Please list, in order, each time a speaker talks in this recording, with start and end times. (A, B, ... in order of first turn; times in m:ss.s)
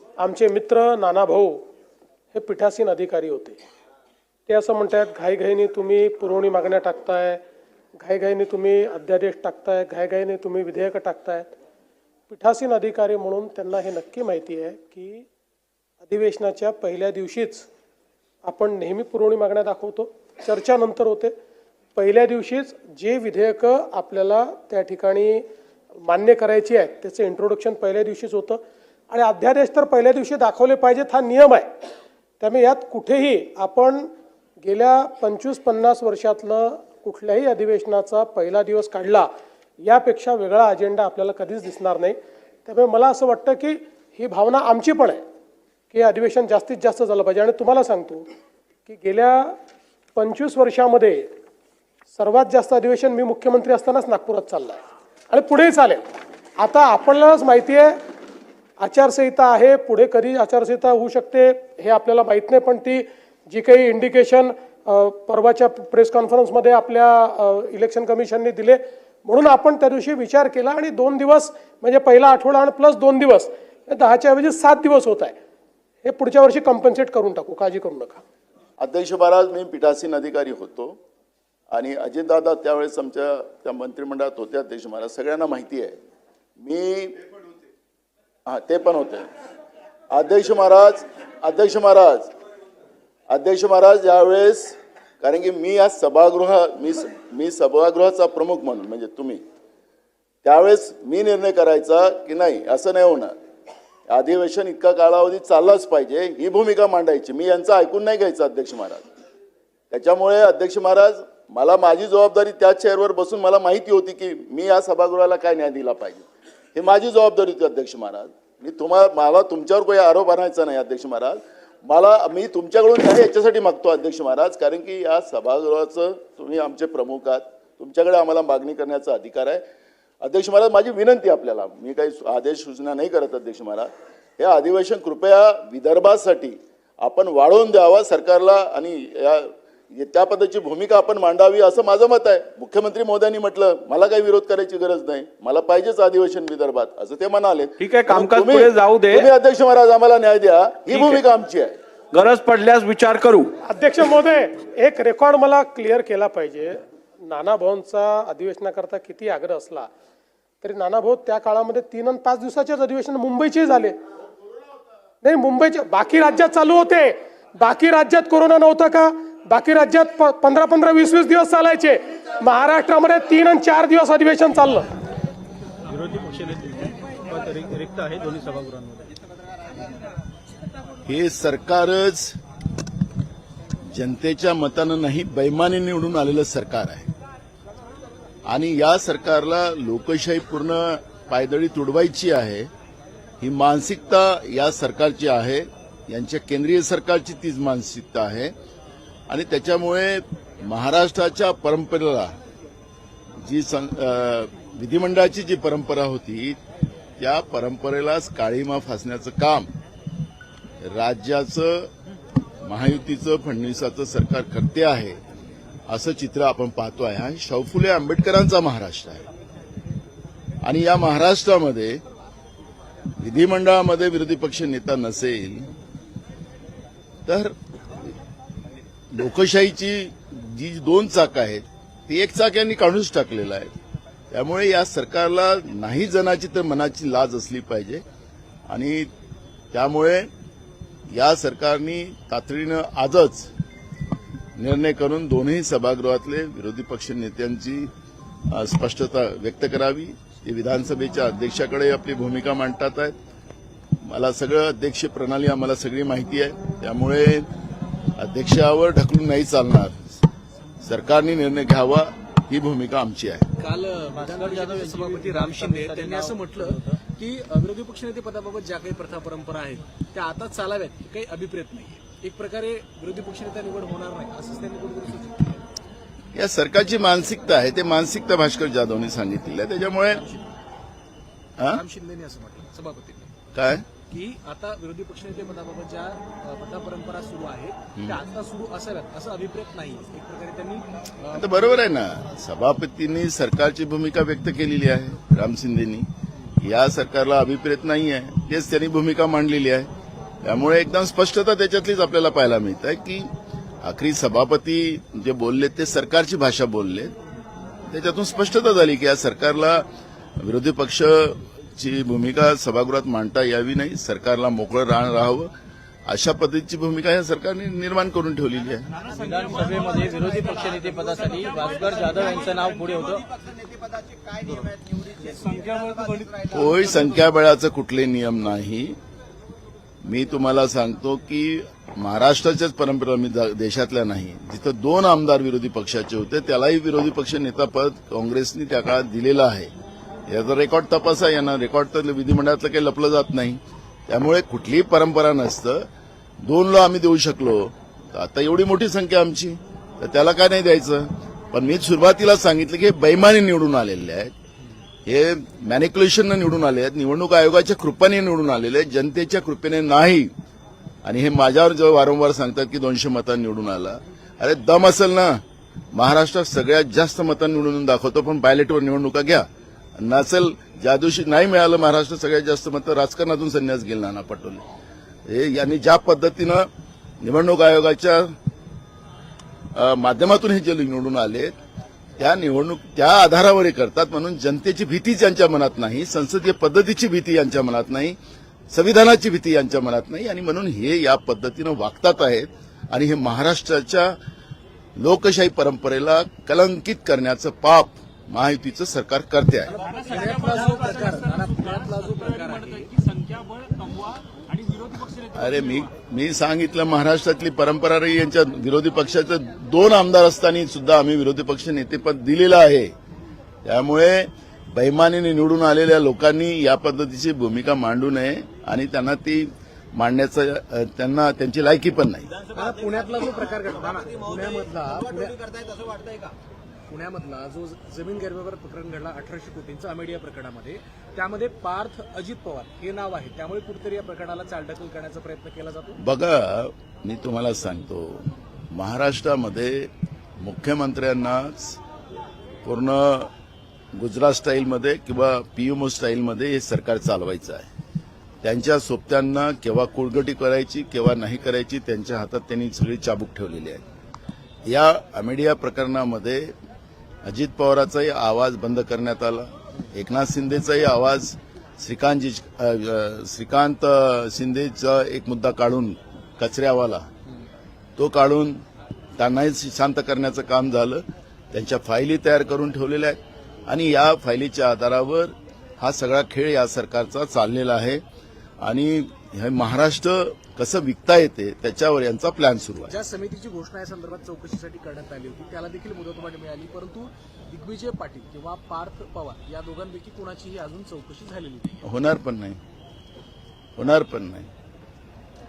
0:00.2-0:01.6 A
0:02.3-0:03.6 A
0:04.5-0:07.4 A
0:08.0-0:11.5 A
0:12.3-0:15.3 A
0:16.0-0:17.7 A
0:18.4-0:21.3 A
0:22.0-0:25.5 A
0:26.0-0:31.7 A
0:32.4-0:34.1 A
0:34.6-0:39.3 A
0:39.8-0:45.2 A
0:45.9-0:48.3 A
0:48.9-0:49.6 A
0:50.2-0:51.3 A
0:52.1-0:56.0 A
0:56.6-0:58.0 A
0:58.8-1:15.4 A
1:16.0-1:18.2 A
1:18.8-1:21.0 B
1:21.7-1:26.0 B
1:26.6-1:27.2 B
1:28.5-1:29.3 B
1:30.1-1:32.3 B
1:33.3-1:39.4 B
1:40.4-1:43.3 B
1:44.1-1:49.0 B
1:49.9-1:56.2 B
1:56.8-2:09.6 B
2:10.2-2:31.7 B
2:27.8-2:29.3 C
2:30.9-2:31.2 C
2:32.1-2:33.5 C
2:33.6-2:39.9 A
2:40.6-2:44.0 A
2:45.2-2:54.9 A
2:55.9-2:59.1 D
3:01.0-3:02.4 B
3:03.9-3:07.1 B
3:08.5-3:12.7 B
3:13.4-3:18.5 B
3:19.3-3:22.4 B
3:23.4-3:26.6 B
3:27.2-3:29.7 B
3:30.8-3:31.9 B
3:32.6-3:35.2 B
3:35.9-3:39.3 B
3:40.6-3:42.0 B
3:43.2-3:45.7 B
3:47.3-3:48.1 B
3:49.1-3:53.7 B
3:54.3-3:58.0 B
3:58.7-3:59.1 B
3:59.7-4:00.3 B
4:01.1-4:03.5 B
4:04.6-4:07.9 B
4:08.5-4:13.2 B
4:14.0-4:17.5 B
4:18.2-4:20.2 B
4:20.8-4:23.5 B
4:23.6-4:35.6 E
4:24.1-4:27.0 D
4:36.4-4:40.2 B
4:40.1-4:40.5 E
4:41.6-4:43.3 E
4:43.5-4:43.9 B
4:44.1-4:51.9 E
4:51.3-4:59.9 B
5:00.4-5:03.3 B
5:03.8-5:07.1 B
5:07.9-5:15.5 B
5:16.1-5:18.9 B
5:19.1-5:23.3 D
5:19.4-5:20.1 E
5:23.4-5:26.5 C
5:25.5-5:26.3 E
5:26.4-5:29.0 B
5:30.0-5:39.7 B
5:40.3-5:45.9 B
5:46.4-5:54.3 B
5:55.1-6:00.3 B
6:01.0-6:05.4 B
6:05.9-6:09.5 B
6:10.0-6:14.6 B
6:15.3-6:16.7 B
6:17.2-6:18.3 B
6:19.8-6:21.6 B
6:22.2-6:28.2 B
6:28.7-6:34.2 B
6:35.0-6:39.7 B
6:39.7-6:45.8 E
6:45.4-6:52.9 B
6:53.6-7:02.3 B
7:02.5-7:05.8 E
7:05.8-7:06.3 C
7:06.9-7:16.0 E
7:16.0-7:21.8 B
7:22.6-7:23.3 B
7:24.0-7:27.7 B
7:28.4-7:33.8 B
7:34.7-7:36.6 B
7:37.2-7:47.1 B
7:48.0-7:48.6 B
7:49.2-7:58.0 B
7:58.6-8:03.0 B
8:02.9-8:11.9 E
8:11.8-8:12.6 B
8:13.8-8:14.5 B